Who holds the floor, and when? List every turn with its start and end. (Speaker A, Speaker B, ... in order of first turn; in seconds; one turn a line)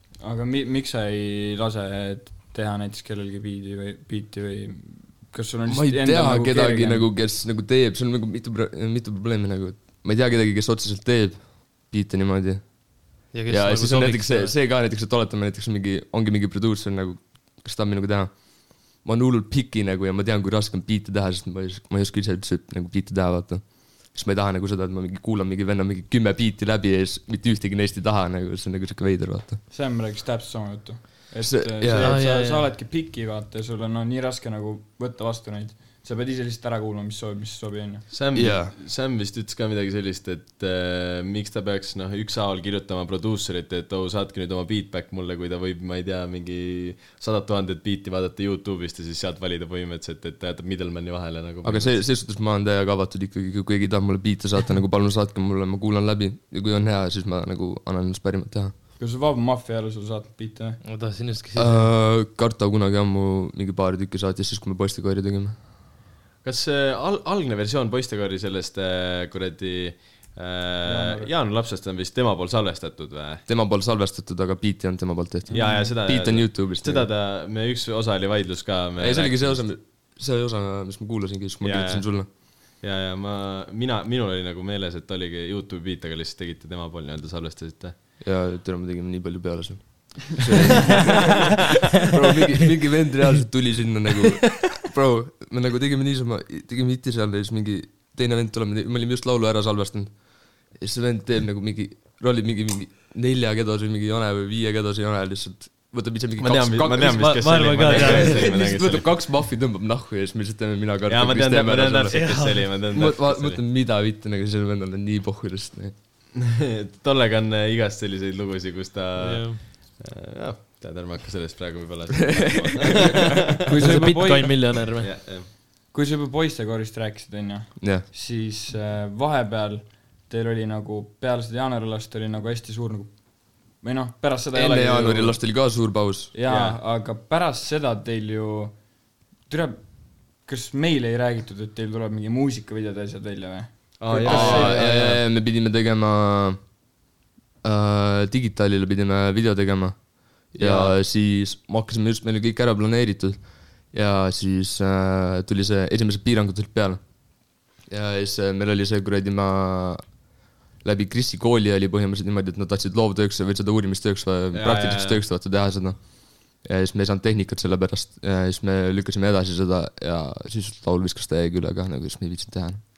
Speaker A: 0.2-7.1
Speaker B: 5.7-29.6
Speaker C: 13.3-14.5
Speaker A: 29.7-38.0
Speaker B: 31.4-32.2
Speaker C: 32.0-32.7
Speaker D: 38.1-52.0
Speaker B: 38.3-38.7
Speaker B: 51.6-58.7
Speaker A: 59.0-60.8
Speaker C: 60.8-61.9
Speaker B: 61.5-65.6
Speaker D: 66.4-73.4
Speaker A: 70.8-71.3
Speaker B: 73.5-77.1
Speaker A: 75.5-75.9
Speaker D: 75.5-79.7
Speaker B: 79.0-82.3
Speaker D: 81.6-82.2
Speaker D: 82.8-88.0
Speaker B: 88.2-100.1
Speaker B: 100.7-107.3
Speaker D: 106.4-109.1
Speaker C: 107.1-108.5
Speaker B: 107.8-112.2
Speaker D: 111.1-113.6
Speaker C: 112.1-112.8
Speaker B: 112.9-115.9
Speaker D: 116.3-123.6
Speaker C: 119.2-119.7
Speaker A: 123.7-124.7
Speaker C: 123.8-125.1
Speaker D: 125.0-125.5
Speaker A: 125.9-135.4
Speaker B: 127.8-128.0
Speaker B: 134.5-136.3
Speaker A: 136.3-138.8
Speaker D: 136.5-136.8
Speaker A: 139.4-144.8
Speaker D: 144.0-145.2
Speaker B: 144.2-146.6
Speaker B: 147.6-157.0
Speaker D: 150.5-150.9
Speaker B: 157.8-160.2
Speaker B: 160.8-172.8
Speaker D: 164.5-165.2